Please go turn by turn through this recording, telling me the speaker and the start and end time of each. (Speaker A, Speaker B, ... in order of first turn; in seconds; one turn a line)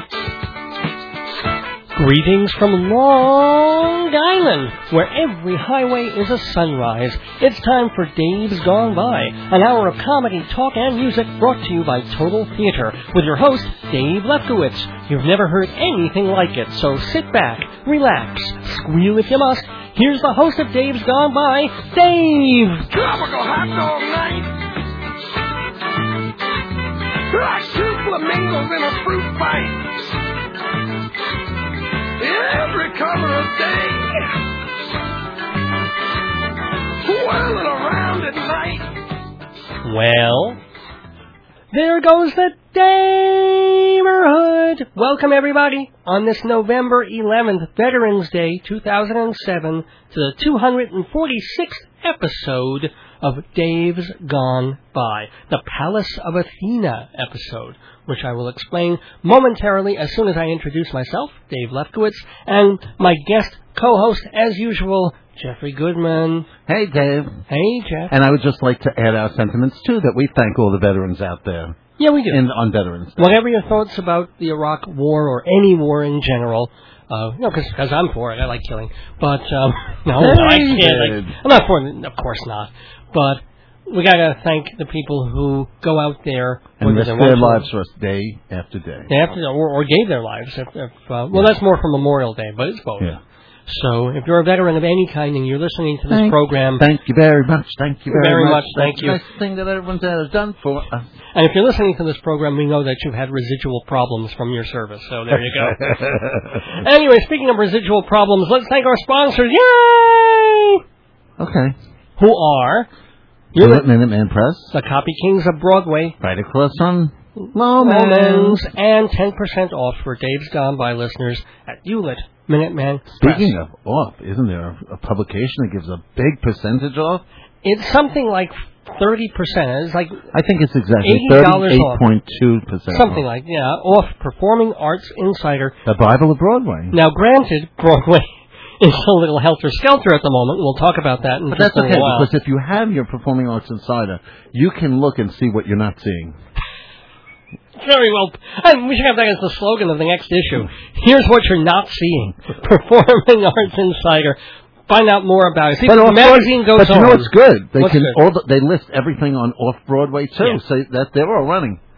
Speaker A: 1.9-22.9
Speaker B: 22.9-24.6
Speaker B: 27.3-30.2
Speaker B: 32.2-34.3
Speaker B: 37.0-39.0
Speaker A: 39.8-40.6
Speaker A: 41.7-66.5
Speaker C: 66.7-67.4
Speaker A: 67.5-68.1
Speaker C: 68.1-71.8
Speaker A: 72.0-72.4
Speaker C: 72.3-73.4
Speaker A: 73.2-87.7
Speaker C: 80.1-81.3
Speaker C: 86.8-89.1
Speaker A: 89.1-93.1
Speaker A: 93.7-96.8
Speaker C: 96.1-101.1
Speaker A: 98.1-99.2
Speaker A: 101.3-106.0
Speaker C: 105.5-106.6
Speaker A: 106.6-110.8
Speaker C: 111.4-111.8
Speaker A: 112.2-112.9
Speaker A: 113.5-113.8
Speaker C: 113.5-114.7
Speaker A: 114.7-116.2
Speaker C: 116.2-118.7
Speaker A: 117.4-123.5
Speaker C: 123.1-127.2
Speaker A: 127.6-130.2
Speaker C: 130.3-133.2
Speaker A: 131.0-132.1
Speaker A: 132.9-135.8
Speaker C: 135.8-137.0
Speaker A: 136.9-138.2
Speaker A: 138.8-142.3
Speaker C: 141.5-146.4
Speaker A: 147.8-158.2
Speaker C: 155.8-161.8